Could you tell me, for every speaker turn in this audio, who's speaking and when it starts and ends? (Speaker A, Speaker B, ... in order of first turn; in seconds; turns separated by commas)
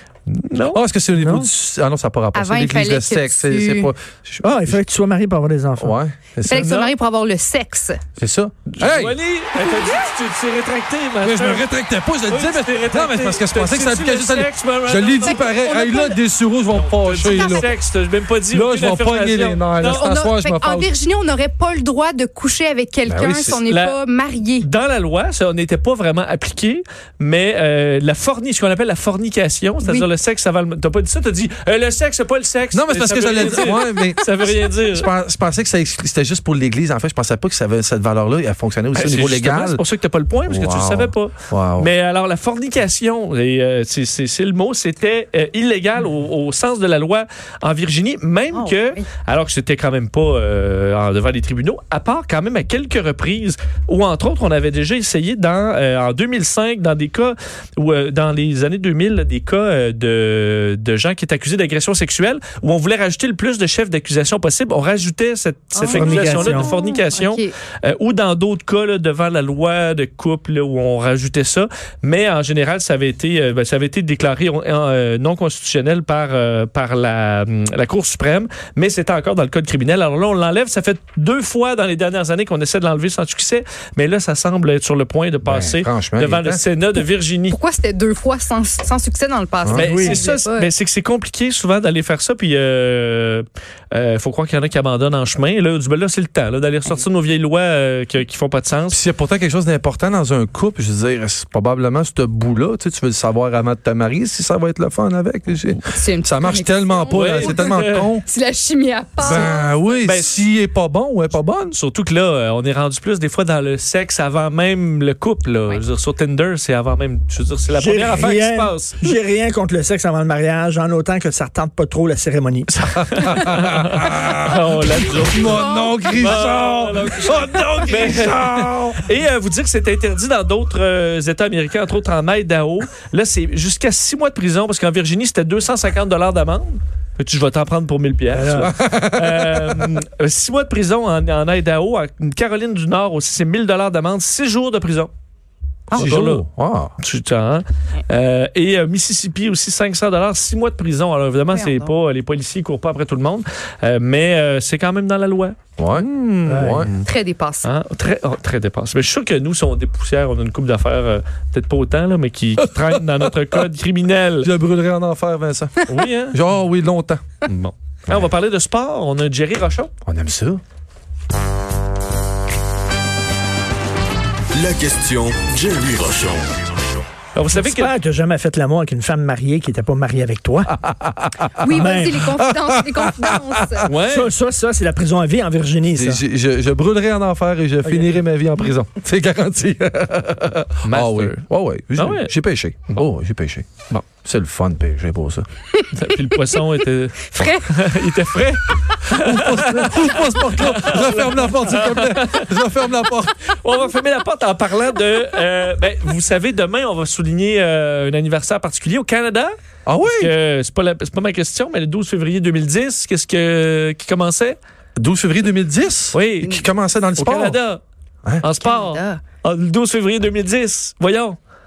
Speaker A: 0.3-0.8, Speaker B: 0.7-4.8, Speaker C: 1.1-1.5, Speaker D: 2.3-3.9, Speaker C: 4.4-6.0, Speaker B: 5.8-6.8, Speaker D: 6.5-8.0, Speaker A: 6.5-6.9, Speaker B: 8.2-9.2, Speaker A: 8.7-11.7, Speaker B: 11.2-17.7, Speaker A: 12.3-15.5, Speaker D: 15.2-16.2, Speaker A: 16.7-20.1, Speaker D: 17.2-17.7, Speaker B: 18.5-20.9, Speaker D: 19.8-24.7, Speaker B: 23.1-23.6, Speaker A: 23.4-24.0, Speaker A: 24.6-35.1, Speaker B: 32.7-39.8, Speaker A: 38.9-87.6, Speaker B: 40.5-41.9, Speaker D: 48.5-49.0, Speaker D: 65.7-67.5, Speaker C: 65.9-66.7, Speaker B: 85.5-86.6, Speaker D: 87.5-90.7, Speaker A: 89.7-99.0, Speaker C: 89.8-90.2, Speaker B: 98.9-108.2, Speaker D: 105.8-107.7, Speaker A: 107.1-108.1, Speaker D: 108.2-110.0, Speaker B: 109.2-111.8, Speaker A: 109.2-110.4, Speaker A: 111.7-119.1, Speaker C: 117.7-122.7, Speaker A: 122.8-145.1, Speaker B: 123.0-129.1, Speaker D: 125.3-126.3, Speaker C: 138.3-138.7, Speaker B: 138.6-139.9, Speaker A: 145.9-146.4, Speaker D: 145.9-146.2, Speaker B: 145.9-146.9, Speaker A: 147.0-157.1, Speaker D: 151.5-151.9, Speaker B: 155.8-156.9, Speaker C: 156.5-156.9, Speaker D: 157.0-157.7, Speaker A: 157.6-164.5, Speaker B: 162.8-163.3, Speaker B: 164.4-167.4, Speaker A: 165.9-166.4, Speaker A: 167.4-169.9, Speaker B: 170.1-170.6, Speaker E: 174.6-176.7, Speaker A: 177.3-177.9, Speaker C: 177.5-180.8, Speaker B: 180.9-183.9, Speaker D: 181.6-183.9, Speaker C: 181.7-182.3, Speaker A: 183.9-184.3, Speaker C: 184.1-186.2, Speaker B: 185.9-195.4, Speaker C: 187.8-188.2, Speaker A: 190.8-191.4, Speaker A: 192.0-192.3, Speaker D: 195.8-196.4, Speaker A: 195.9-203.1, Speaker D: 197.3-197.7, Speaker B: 199.1-203.3, Speaker A: 203.6-209.6, Speaker B: 209.9-210.3, Speaker A: 210.2-214.6, Speaker B: 215.0-217.6, Speaker A: 216.1-216.6, Speaker A: 217.2-217.8, Speaker A: 218.4-221.4, Speaker D: 218.6-219.2